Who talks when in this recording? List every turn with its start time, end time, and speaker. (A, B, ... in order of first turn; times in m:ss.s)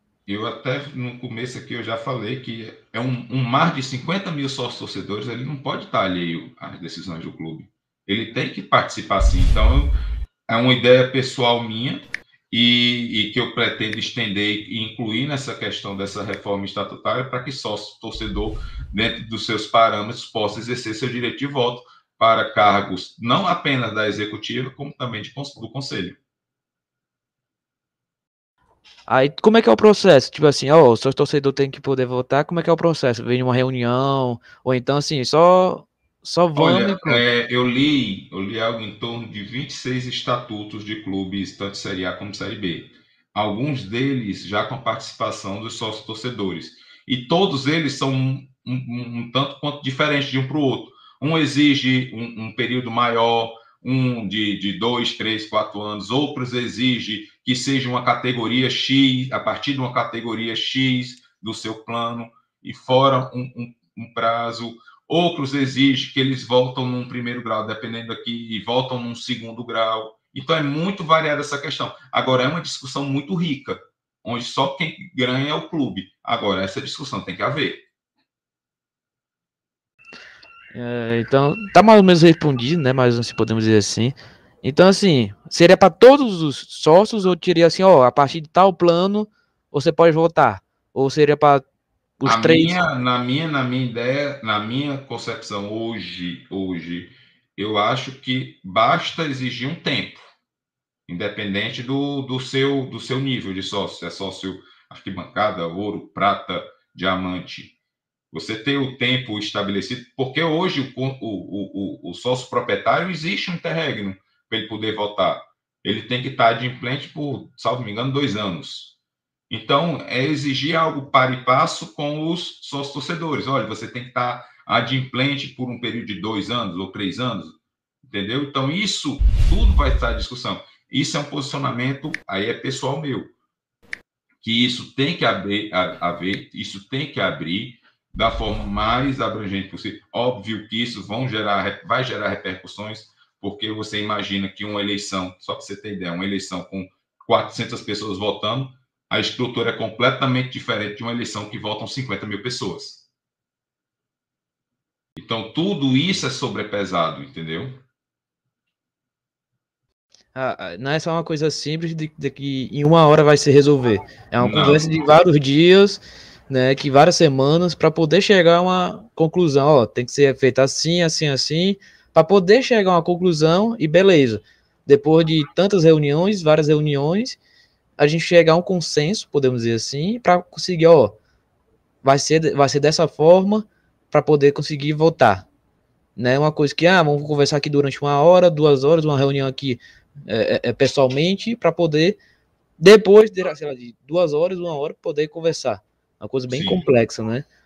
0:00.3-0:09.9 A
0:10.5-0:26.2 A
0:29.1-0:37.2 B
0:36.5-1:17.8 A
1:20.7-1:31.6 B
1:32.2-1:32.8 B
1:32.2-1:40.3 A
1:41.1-1:47.7 A
1:48.3-1:58.9 A
1:59.5-2:13.3 A
2:14.4-2:33.1 A
2:35.2-2:37.8 A
2:40.3-2:57.4 B
2:44.4-2:44.9 A
2:58.0-3:01.2 B
3:02.0-3:05.5 B
3:06.2-3:12.2 B
3:12.8-3:17.4 B
3:16.5-3:16.9 A